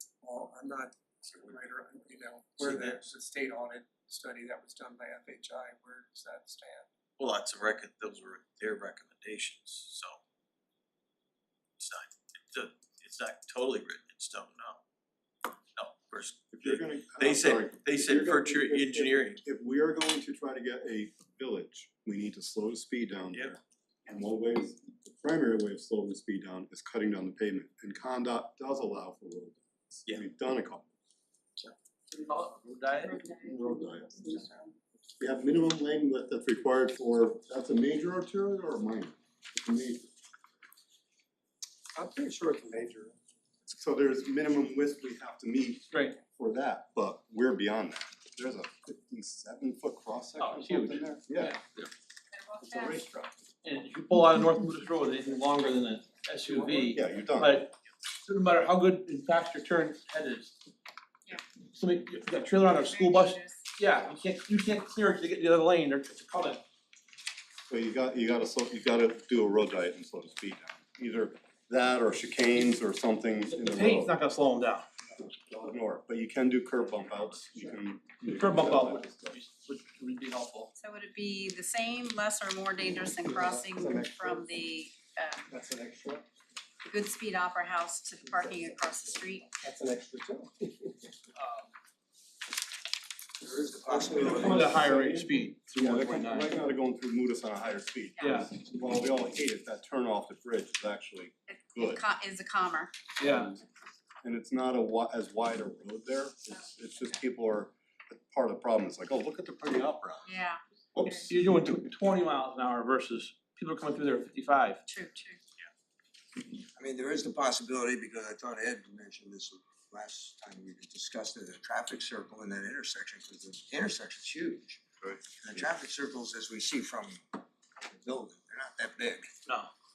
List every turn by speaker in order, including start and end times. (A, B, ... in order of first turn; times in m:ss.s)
0:00.2-0:06.9 A
0:07.2-0:10.2 B
0:11.8-0:14.8 B
0:15.8-0:19.4 B
0:16.5-0:30.9 C
0:32.1-0:33.2 D
0:33.2-0:34.5 C
0:33.2-0:33.6 E
0:35.2-0:40.1 C
0:41.9-0:43.2 A
0:43.6-0:51.6 C
0:50.4-0:51.6 D
0:52.3-0:53.0 E
0:52.6-0:53.3 C
0:53.6-1:00.6 D
0:56.7-0:57.7 C
1:01.7-1:06.6 D
1:02.6-1:03.6 E
1:07.7-1:14.2 C
1:13.5-1:14.8 D
1:15.2-1:19.4 C
1:18.2-1:20.7 D
1:20.8-1:25.5 E
1:23.3-1:24.4 A
1:25.5-1:26.2 A
1:26.8-1:29.6 E
1:28.3-1:28.7 A
1:29.6-1:31.1 A
1:31.4-1:31.7 D
1:33.4-1:34.8 F
1:34.1-1:36.5 D
1:34.4-1:35.2 A
1:35.7-1:42.0 C
1:38.2-1:38.5 E
1:38.2-1:38.5 D
1:41.5-1:42.9 E
1:43.2-1:43.7 C
1:43.2-1:43.5 D
1:44.2-1:50.4 C
1:50.2-1:51.2 E
1:50.9-1:51.8 C
1:51.3-1:54.8 D
1:54.9-1:55.4 E
1:56.6-2:04.8 F
2:05.3-2:09.3 F
2:09.4-2:09.7 D